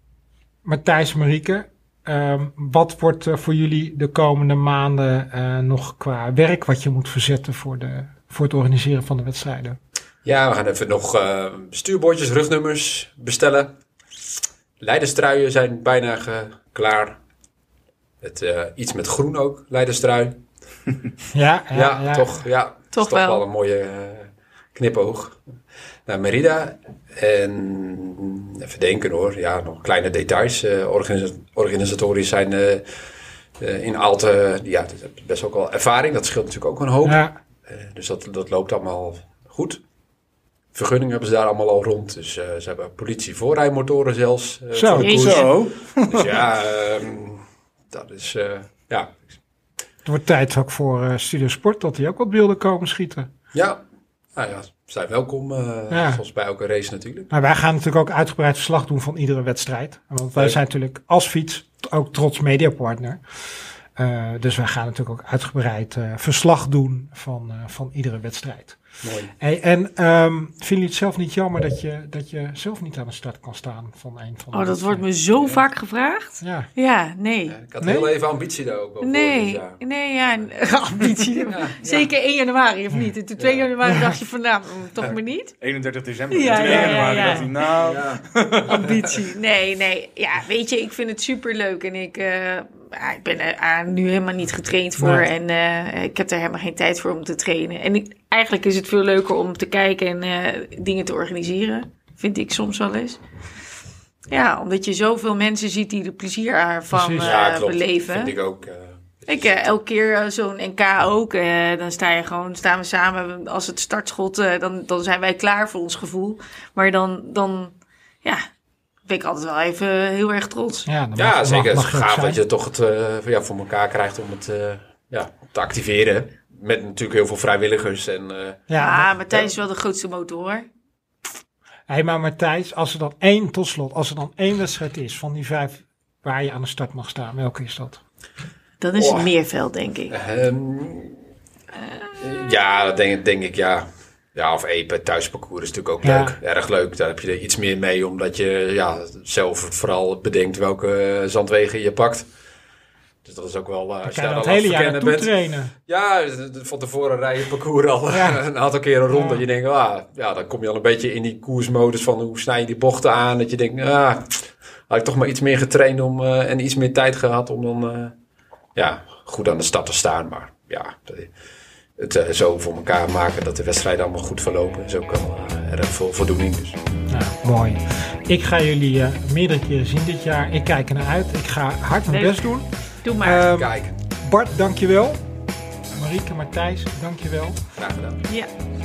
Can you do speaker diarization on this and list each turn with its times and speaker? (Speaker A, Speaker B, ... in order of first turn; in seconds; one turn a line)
Speaker A: 0.6-9.8
Speaker B: 10.2-13.8
Speaker B: 14.8-17.2
Speaker B: 18.2-20.4
Speaker A: 21.3-22.4
Speaker B: 21.7-25.4
Speaker C: 22.9-23.4
Speaker B: 26.1-32.9
Speaker B: 33.6-39.8
Speaker A: 37.0-37.3
Speaker B: 40.7-45.5
Speaker A: 44.7-45.2
Speaker C: 45.0-45.5
Speaker D: 45.0-46.4
Speaker B: 46.1-49.3
Speaker A: 50.0-53.3
Speaker B: 53.5-53.8
Speaker B: 54.3-57.3
Speaker A: 55.9-56.2
Speaker A: 57.3-68.8
Speaker B: 69.0-69.3
Speaker A: 69.4-75.1
Speaker C: 74.5-77.6
Speaker B: 75.3-75.6
Speaker A: 76.4-76.7
Speaker B: 77.5-79.8
Speaker A: 77.8-78.1
Speaker C: 79.0-85.5
Speaker B: 81.5-81.8
Speaker B: 83.4-83.7
Speaker A: 83.8-84.1
Speaker D: 85.6-89.0
Speaker C: 86.3-87.5
Speaker A: 86.6-87.5
Speaker B: 87.8-88.2
Speaker C: 88.7-103.2
Speaker A: 95.0-95.3
Speaker C: 104.3-108.3
Speaker A: 106.9-107.3
Speaker B: 107.2-109.7
Speaker C: 109.3-118.5
Speaker C: 119.0-120.9
Speaker A: 120.8-122.4
Speaker B: 121.1-128.7
Speaker A: 128.7-129.1
Speaker C: 128.8-130.6
Speaker A: 131.9-138.0
Speaker C: 138.8-140.2
Speaker B: 138.9-139.3
Speaker B: 140.1-141.2
Speaker B: 142.2-152.3
Speaker A: 146.0-146.3
Speaker B: 153.2-155.3
Speaker A: 154.0-155.7
Speaker B: 155.8-168.1
Speaker A: 158.1-158.4
Speaker A: 159.1-159.4
Speaker B: 168.7-171.3
Speaker B: 172.0-176.8
Speaker A: 177.1-182.7
Speaker C: 182.1-182.4
Speaker C: 183.0-183.5
Speaker A: 183.2-185.2
Speaker B: 183.5-184.0
Speaker A: 185.9-187.6
Speaker B: 187.7-188.2